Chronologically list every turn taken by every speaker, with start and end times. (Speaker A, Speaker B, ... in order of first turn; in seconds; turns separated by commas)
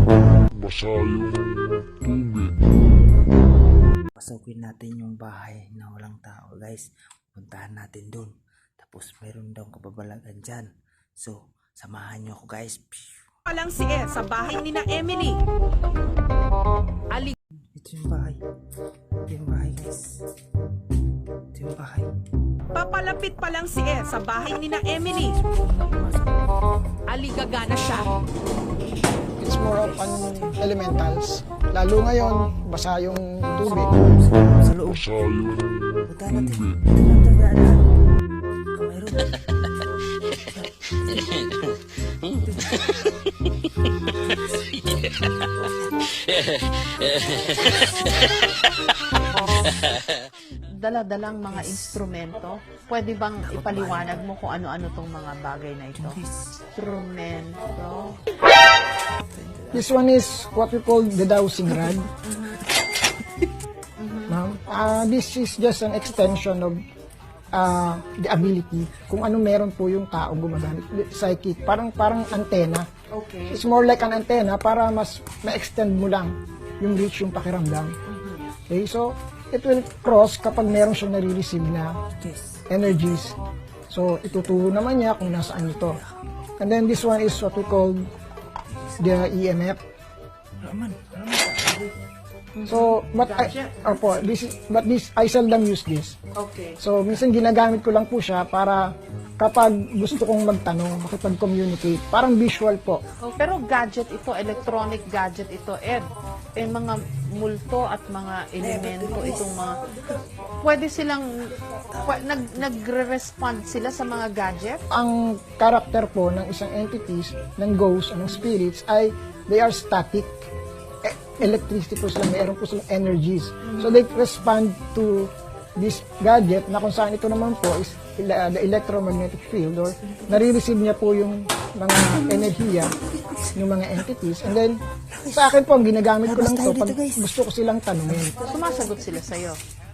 Speaker A: 0.5-2.6, Speaker B: 4.2-13.3, Speaker C: 13.5-15.3, Speaker D: 13.7-15.1, Speaker B: 17.7-18.4, Speaker B: 19.2-20.2, Speaker B: 21.5-22.1, Speaker C: 22.7-25.4, Speaker D: 23.3-24.2, Speaker B: 25.4-26.3, Speaker C: 27.1-28.1, Speaker E: 29.4-33.9, Speaker B: 29.4-30.6, Speaker B: 33.6-35.1, Speaker A: 34.9-36.8, Speaker B: 36.1-37.9, Speaker B: 38.7-39.5, Speaker B: 40.5-43.1, Speaker B: 44.3-45.1, Speaker B: 45.6-46.2, Speaker B: 47.3-47.9, Speaker D: 50.5-56.2, Speaker B: 53.4-54.2, Speaker B: 55.9-56.4, Speaker D: 56.7-58.2, Speaker B: 59.3-59.9, Speaker E: 59.7-62.1, Speaker D: 62.2-62.6, Speaker D: 64.0-64.4, Speaker E: 64.3-66.8, Speaker E: 67.5-72.9, Speaker D: 73.1-73.6, Speaker E: 73.5-77.9, Speaker D: 78.0-78.5, Speaker E: 78.7-82.0, Speaker B: 82.2-82.6, Speaker E: 82.7-83.3, Speaker E: 83.9-86.0, Speaker E: 86.6-88.0, Speaker E: 89.0-89.8, Speaker B: 90.6-91.9, Speaker D: 92.5-94.1, Speaker E: 92.6-96.2, Speaker D: 96.4-96.8, Speaker E: 96.8-103.0, Speaker D: 103.2-109.8, Speaker B: 108.6-109.6, Speaker D: 110.5-114.8, Speaker B: 111.9-112.4, Speaker E: 114.9-120.5, Speaker E: 121.0-132.9, Speaker D: 123.7-123.9, Speaker E: 133.5-138.3, Speaker B: 136.2-137.2, Speaker D: 138.4-139.6